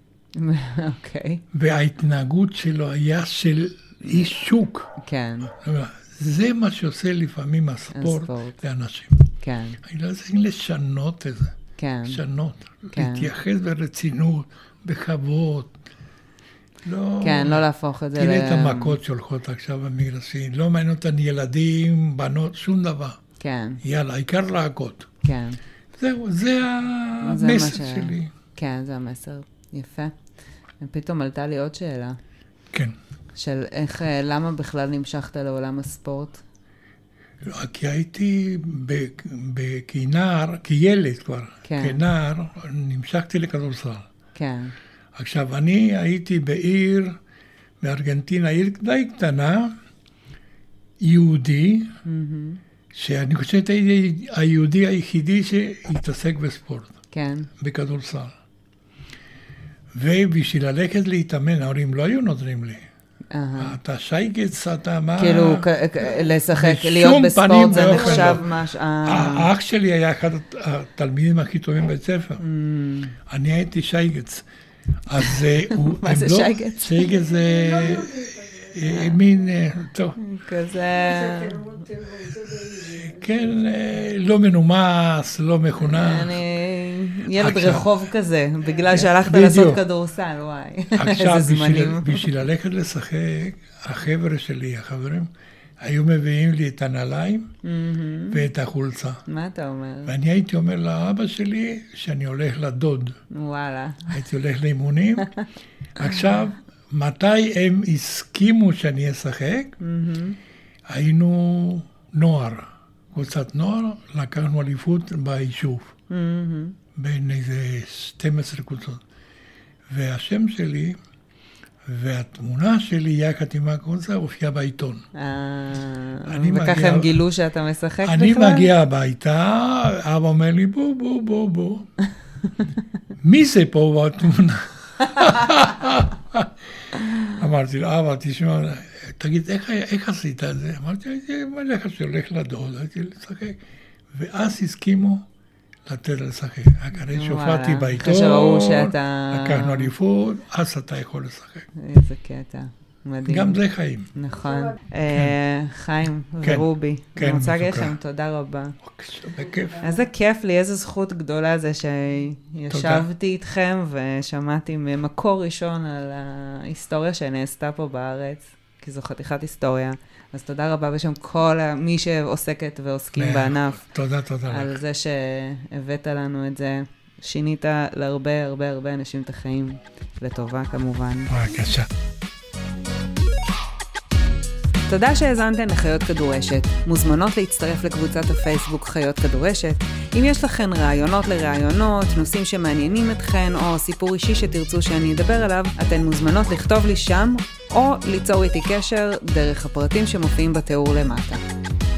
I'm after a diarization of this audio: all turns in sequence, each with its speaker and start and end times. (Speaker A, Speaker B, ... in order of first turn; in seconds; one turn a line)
Speaker A: 0.3-1.4
Speaker B: 1.5-4.9
Speaker A: 5.0-5.5
Speaker B: 5.6-9.3
Speaker A: 7.9-8.6
Speaker A: 9.4-9.8
Speaker B: 9.8-11.6
Speaker A: 11.8-12.2
Speaker B: 12.1-15.7
Speaker A: 12.9-13.3
Speaker B: 16.9-17.6
Speaker A: 17.2-19.0
Speaker B: 18.2-23.2
Speaker A: 23.4-23.8
Speaker B: 23.8-25.1
Speaker A: 25.2-25.6
Speaker B: 26.0-28.3
Speaker A: 27.2-30.1
Speaker A: 30.8-32.2
Speaker A: 33.4-36.4
Speaker B: 37.4-44.1
Speaker A: 41.6-42.0
Speaker A: 44.4-44.7
Speaker B: 45.1-47.2
Speaker B: 47.8-49.8
Speaker B: 51.0-52.0
Speaker A: 52.1-52.6
Speaker B: 52.9-57.0
Speaker A: 57.1-57.5
Speaker B: 57.6-58.3
Speaker B: 59.9-62.9
Speaker A: 63.3-63.8
Speaker B: 63.6-68.5
Speaker A: 65.2-69.5
Speaker C: 67.7-68.4
Speaker B: 69.0-72.4
Speaker A: 72.4-73.2
Speaker B: 73.3-74.5
Speaker B: 75.0-80.2
Speaker A: 75.2-77.2
Speaker C: 77.1-79.2
Speaker A: 80.2-81.6
Speaker C: 80.9-83.5
Speaker B: 82.9-86.4
Speaker A: 85.8-92.3
Speaker B: 87.3-88.0
Speaker B: 88.9-89.8
Speaker B: 91.0-97.5
Speaker A: 97.6-98.5
Speaker B: 98.3-99.2
Speaker A: 99.3-100.1
Speaker B: 100.1-103.2
Speaker A: 103.3-104.2
Speaker B: 104.1-105.3
Speaker B: 106.0-109.8
Speaker A: 106.0-106.4
Speaker A: 109.8-110.4
Speaker B: 110.9-115.9
Speaker A: 116.1-116.8
Speaker B: 117.0-119.0
Speaker B: 119.9-121.0
Speaker B: 121.8-125.0
Speaker A: 125.1-128.7
Speaker B: 126.3-127.2
Speaker B: 128.0-131.9
Speaker B: 133.2-143.6
Speaker B: 144.1-145.3
Speaker B: 145.9-151.7
Speaker A: 147.1-149.9
Speaker A: 151.8-153.6
Speaker B: 153.2-154.1
Speaker A: 154.1-158.8
Speaker B: 156.4-157.9
Speaker B: 158.8-159.8
Speaker A: 159.8-173.8
Speaker B: 162.7-163.1
Speaker B: 173.2-174.8
Speaker A: 174.5-181.3
Speaker B: 181.3-181.9
Speaker A: 184.9-201.4